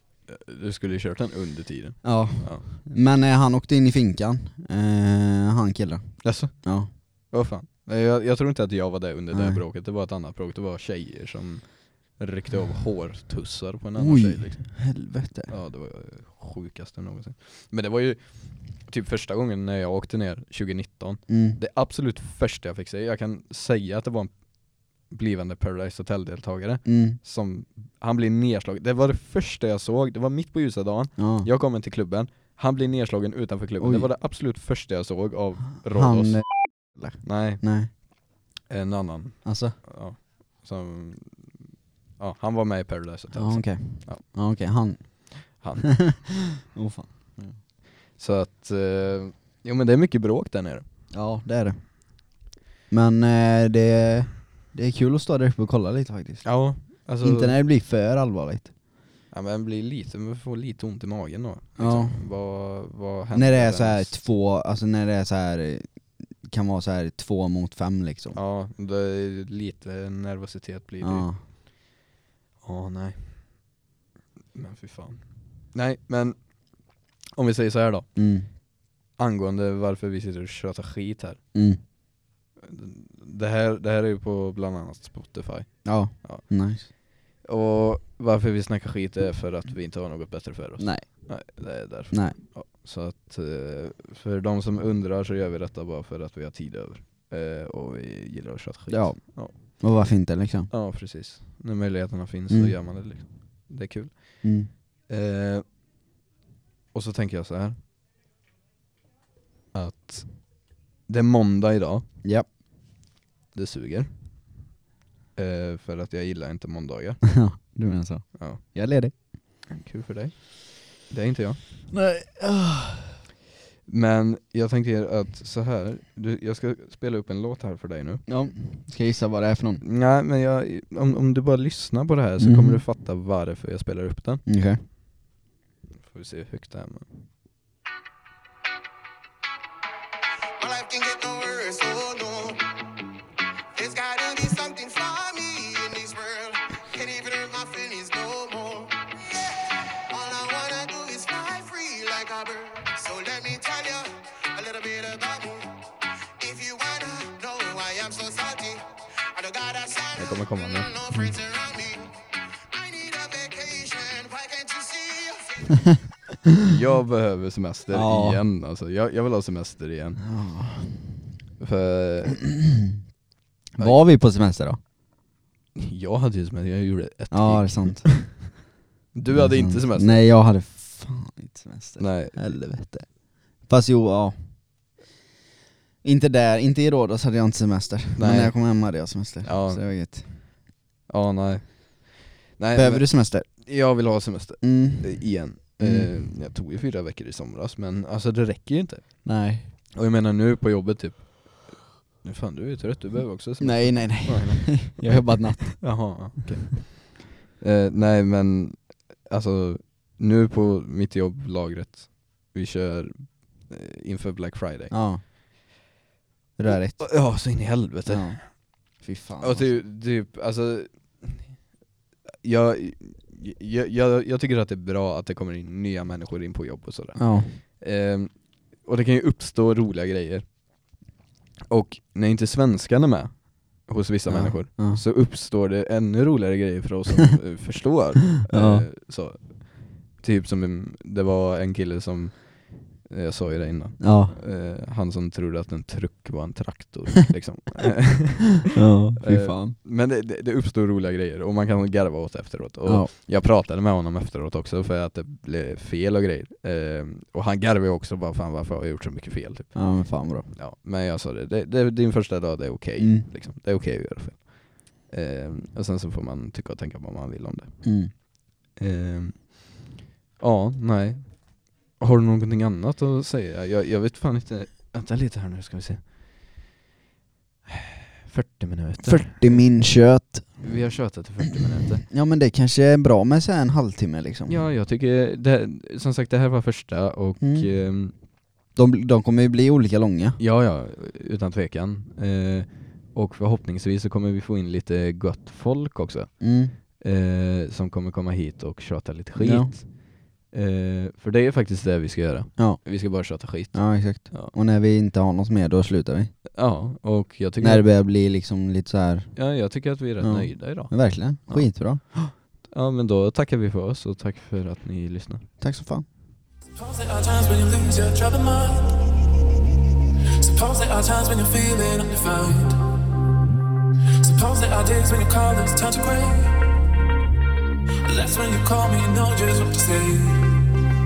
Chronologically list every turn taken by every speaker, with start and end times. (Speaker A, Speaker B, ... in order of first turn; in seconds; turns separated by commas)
Speaker A: 0.3-2.6, Speaker B: 2.0-6.9, Speaker A: 6.2-14.8, Speaker B: 9.3-9.6, Speaker B: 14.0-15.5, Speaker A: 15.5-38.0, Speaker B: 21.3-21.6, Speaker B: 26.8-27.2, Speaker B: 31.2-31.5, Speaker B: 33.8-34.1, Speaker B: 35.9-37.9, Speaker A: 38.7-44.2, Speaker B: 39.4-39.8, Speaker B: 43.3-47.6, Speaker A: 45.5-46.0, Speaker A: 48.1-50.8, Speaker B: 51.1-52.4, Speaker B: 52.9-58.7, Speaker A: 56.4-57.5, Speaker A: 59.3-64.1, Speaker B: 61.8-62.2, Speaker B: 63.3-68.4, Speaker A: 68.3-71.3, Speaker B: 71.0-71.4, Speaker A: 72.6-73.7, Speaker A: 74.5-78.2, Speaker B: 78.1-78.5, Speaker A: 79.2-81.4, Speaker B: 81.5-81.8, Speaker A: 82.6-86.4, Speaker B: 85.8-86.9, Speaker A: 87.4-99.6, Speaker B: 90.8-92.4, Speaker B: 98.9-100.7, Speaker A: 100.7-105.6, Speaker B: 102.5-102.8, Speaker B: 104.4-104.7, Speaker A: 106.9-107.8, Speaker A: 109.7-112.0, Speaker A: 113.5-114.4, Speaker A: 115.3-117.2, Speaker B: 117.3-119.1, Speaker A: 119.7-121.6, Speaker B: 121.9-123.2, Speaker A: 123.9-128.2, Speaker B: 128.3-129.8, Speaker A: 129.8-134.4, Speaker B: 132.4-132.8, Speaker B: 134.4-134.8, Speaker A: 136.0-137.1, Speaker C: 140.6-142.6, Speaker C: 143.7-155.8, Speaker C: 156.4-166.0, Speaker A: 160.2-160.9, Speaker A: 166.7-170.2, Speaker B: 167.9-168.4, Speaker B: 170.2-171.2, Speaker A: 171.6-172.4, Speaker B: 173.7-174.8, Speaker A: 175.8-178.3, Speaker B: 177.3-178.3, Speaker A: 179.1-180.2, Speaker B: 179.3-184.3, Speaker A: 182.0-182.6, Speaker B: 186.0-190.3, Speaker A: 188.2-188.7, Speaker A: 189.4-189.8, Speaker A: 191.1-199.3, Speaker B: 192.7-193.5, Speaker B: 194.6-196.1, Speaker B: 199.2-199.7, Speaker A: 199.9-214.9, Speaker B: 203.6-206.2, Speaker B: 214.9-215.2, Speaker B: 216.6-217.2, Speaker A: 216.7-218.7, Speaker B: 218.1-219.8, Speaker A: 219.4-221.5, Speaker A: 222.4-230.5, Speaker B: 227.2-227.6, Speaker A: 231.7-268.2, Speaker B: 234.3-235.0, Speaker B: 238.5-238.9, Speaker B: 244.0-244.3, Speaker B: 248.7-249.8, Speaker B: 252.8-253.1, Speaker B: 259.7-260.5, Speaker B: 263.0-263.3, Speaker B: 267.8-268.1, Speaker A: 268.7-269.8, Speaker A: 270.4-276.4, Speaker A: 277.7-279.6, Speaker B: 279.0-280.6, Speaker A: 280.6-282.0, Speaker B: 282.1-284.6, Speaker A: 284.5-288.1, Speaker B: 287.4-287.7, Speaker B: 288.7-290.4, Speaker A: 290.4-304.5, Speaker B: 296.4-296.8, Speaker B: 299.4-299.8, Speaker B: 302.6-306.3, Speaker A: 306.5-307.8, Speaker B: 307.6-309.4, Speaker A: 309.4-315.5, Speaker B: 310.2-312.0, Speaker B: 315.6-316.0, Speaker D: 316.7-319.0, Speaker D: 320.4-322.8, Speaker D: 324.2-326.6, Speaker D: 328.0-330.7